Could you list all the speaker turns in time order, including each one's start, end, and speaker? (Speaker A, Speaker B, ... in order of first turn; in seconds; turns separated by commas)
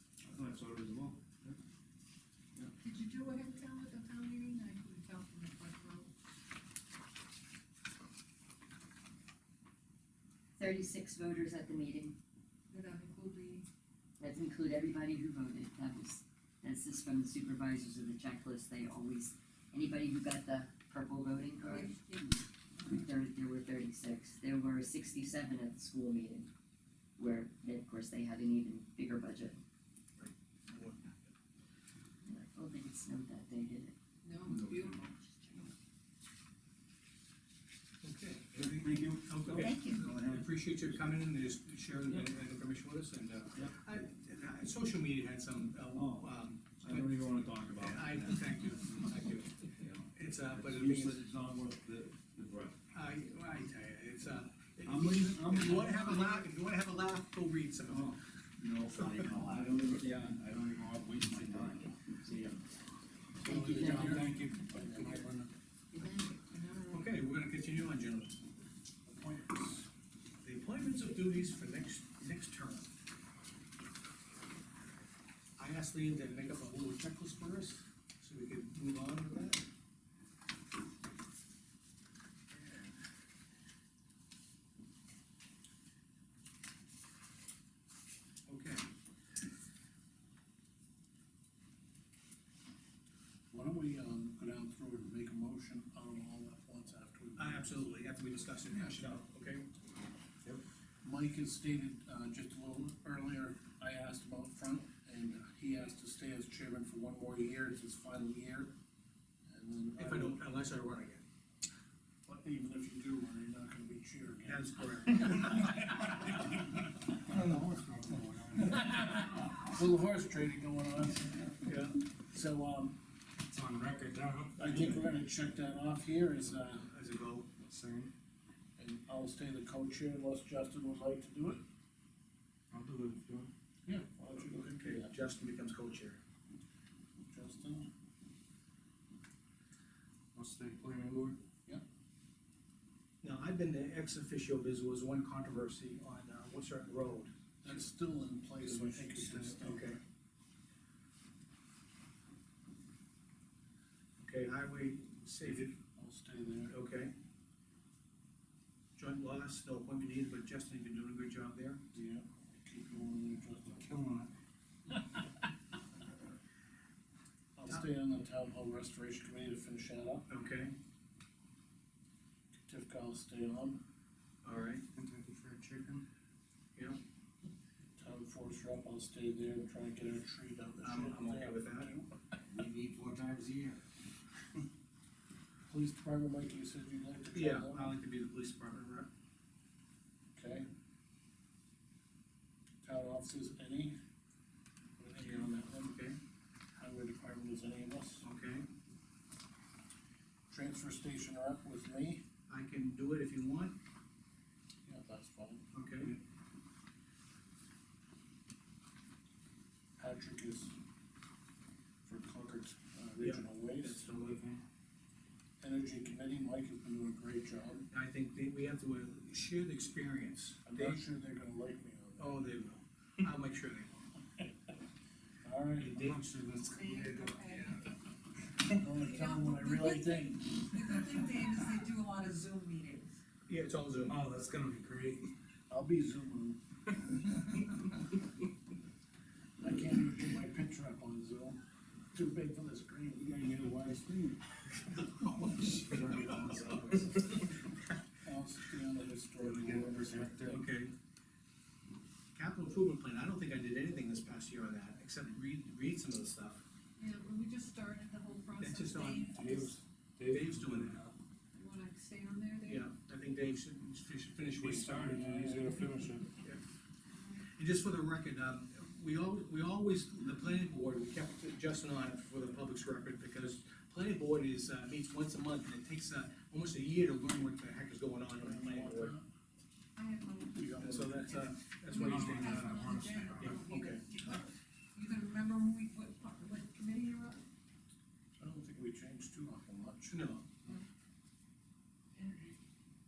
Speaker A: 0.2-1.6, Speaker B: 2.8-6.1, Speaker C: 10.6-12.2, Speaker B: 12.7-13.7, Speaker C: 14.2-22.0, Speaker B: 21.6-22.3, Speaker C: 22.8-26.5, Speaker C: 27.2-29.6, Speaker D: 30.2-31.3, Speaker C: 32.3-34.0, Speaker B: 34.2-35.7, Speaker D: 38.0-38.7, Speaker A: 38.5-40.5, Speaker D: 39.3-51.2, Speaker E: 39.3-40.2, Speaker C: 39.5-40.0, Speaker E: 46.0-46.3, Speaker A: 46.9-47.9, Speaker E: 46.9-48.7, Speaker A: 50.5-52.7, Speaker E: 50.6-51.1, Speaker E: 52.1-52.7, Speaker D: 52.9-58.2, Speaker A: 54.9-56.0, Speaker E: 55.6-56.3, Speaker A: 57.9-62.6, Speaker E: 59.7-61.8, Speaker F: 63.4-65.3, Speaker D: 63.4-65.5, Speaker C: 63.8-64.1, Speaker E: 63.9-65.3, Speaker B: 65.9-67.2, Speaker D: 66.9-68.4, Speaker F: 69.1-69.9, Speaker D: 70.4-72.9, Speaker D: 75.6-79.7, Speaker D: 82.5-82.9, Speaker D: 88.5-88.9, Speaker F: 93.5-97.9, Speaker D: 97.4-99.7, Speaker F: 98.7-99.2, Speaker F: 101.0-108.7, Speaker F: 109.5-110.4, Speaker D: 110.0-111.2, Speaker F: 112.3-116.3, Speaker D: 114.5-116.2, Speaker E: 117.0-119.1, Speaker F: 118.6-121.7, Speaker D: 121.6-122.0, Speaker F: 122.3-123.0, Speaker E: 123.5-125.0, Speaker F: 124.6-126.9, Speaker D: 124.7-125.0, Speaker D: 126.8-127.5, Speaker E: 127.7-128.1, Speaker F: 128.8-131.6, Speaker E: 132.7-133.5, Speaker F: 133.9-135.2, Speaker D: 134.8-136.2, Speaker F: 137.3-137.9, Speaker E: 140.3-141.4, Speaker D: 143.2-147.7, Speaker F: 147.6-149.9, Speaker D: 148.6-150.0, Speaker D: 154.2-155.7, Speaker E: 155.4-155.7, Speaker F: 155.9-156.7, Speaker D: 156.7-157.1, Speaker D: 159.0-161.8, Speaker F: 161.9-164.0, Speaker E: 163.8-164.3, Speaker F: 167.6-170.3, Speaker D: 170.3-170.8, Speaker F: 172.6-173.8, Speaker D: 174.4-174.8, Speaker E: 174.9-176.1, Speaker F: 178.0-182.1, Speaker D: 180.8-181.9, Speaker A: 182.6-183.7, Speaker F: 185.7-187.9, Speaker D: 187.3-189.1, Speaker F: 190.4-190.7, Speaker F: 192.8-194.0, Speaker F: 195.0-196.0, Speaker D: 195.2-196.2, Speaker F: 196.7-198.3, Speaker D: 198.2-198.7, Speaker F: 200.5-202.2, Speaker D: 202.5-203.8, Speaker F: 204.9-205.7, Speaker D: 205.7-206.2, Speaker F: 210.0-210.8, Speaker F: 212.1-214.1, Speaker D: 213.2-214.6, Speaker F: 215.6-217.9, Speaker D: 217.9-221.0, Speaker F: 220.7-222.4, Speaker D: 222.2-224.1, Speaker F: 225.4-226.2, Speaker E: 225.8-227.8, Speaker B: 226.7-227.9, Speaker F: 228.7-231.0, Speaker B: 229.0-233.2, Speaker D: 233.5-234.2, Speaker E: 234.1-235.3, Speaker F: 235.7-236.6, Speaker F: 239.6-241.6, Speaker F: 242.1-244.2, Speaker E: 243.7-244.4, Speaker D: 244.9-247.5, Speaker E: 245.9-247.3, Speaker F: 246.0-246.5, Speaker F: 248.2-250.7, Speaker E: 249.4-250.7, Speaker D: 250.5-250.9, Speaker D: 252.3-256.6, Speaker B: 257.0-259.8, Speaker D: 258.6-259.4, Speaker E: 259.3-261.1, Speaker D: 260.3-261.1, Speaker B: 261.5-262.9, Speaker D: 262.7-265.6, Speaker E: 264.6-266.4, Speaker B: 267.1-267.5, Speaker D: 267.5-279.2, Speaker F: 278.4-279.3, Speaker B: 280.0-287.4, Speaker F: 280.6-281.4, Speaker D: 280.8-284.1, Speaker E: 281.9-283.6, Speaker F: 288.4-290.2, Speaker D: 290.1-290.5, Speaker B: 292.1-292.6